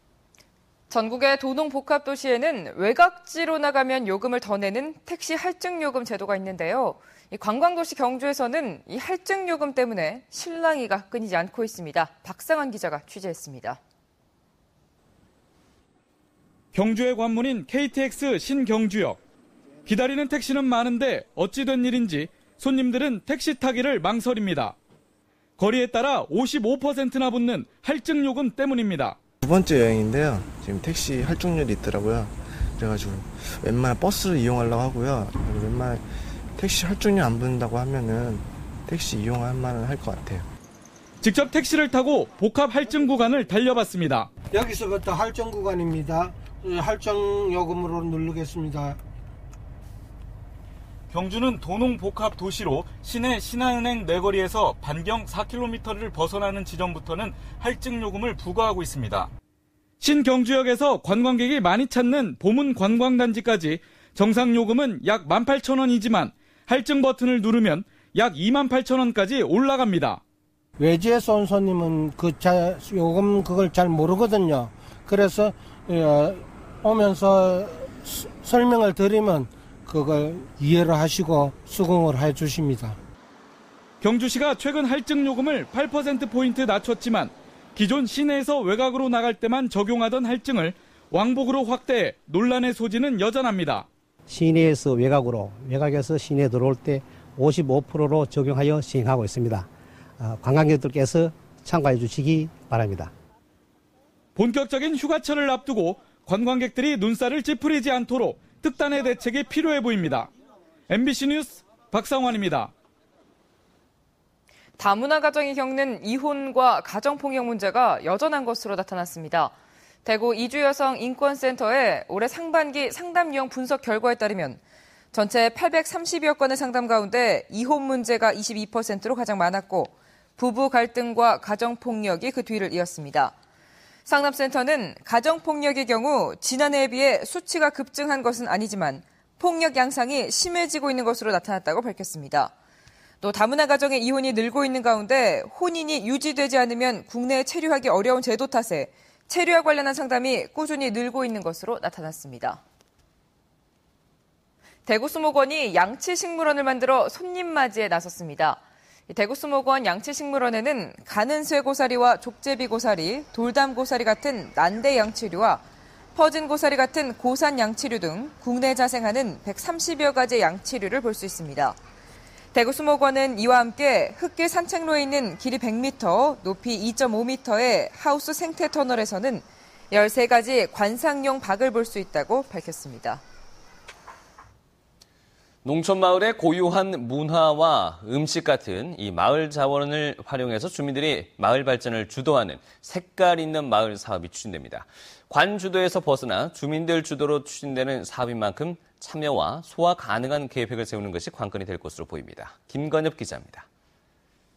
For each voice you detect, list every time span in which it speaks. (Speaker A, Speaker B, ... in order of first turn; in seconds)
Speaker A: 0.9-13.8, 114.8-119.5, 120.0-124.6, 125.1-133.3, 134.1-142.5, 143.2-152.6, 154.9-165.6, 166.1-171.8, 172.5-183.2
Speaker B: 16.7-19.2, 19.9-24.8, 25.6-29.2, 41.2-44.3, 51.1-59.3, 60.0-70.2, 84.0-93.9, 104.3-110.3, 110.9-112.7
Speaker C: 29.4-36.0, 36.6-40.5
Speaker D: 44.5-49.0, 70.8-83.0
Speaker E: 94.3-99.7, 100.2-103.1
Speaker F: 185.6-203.7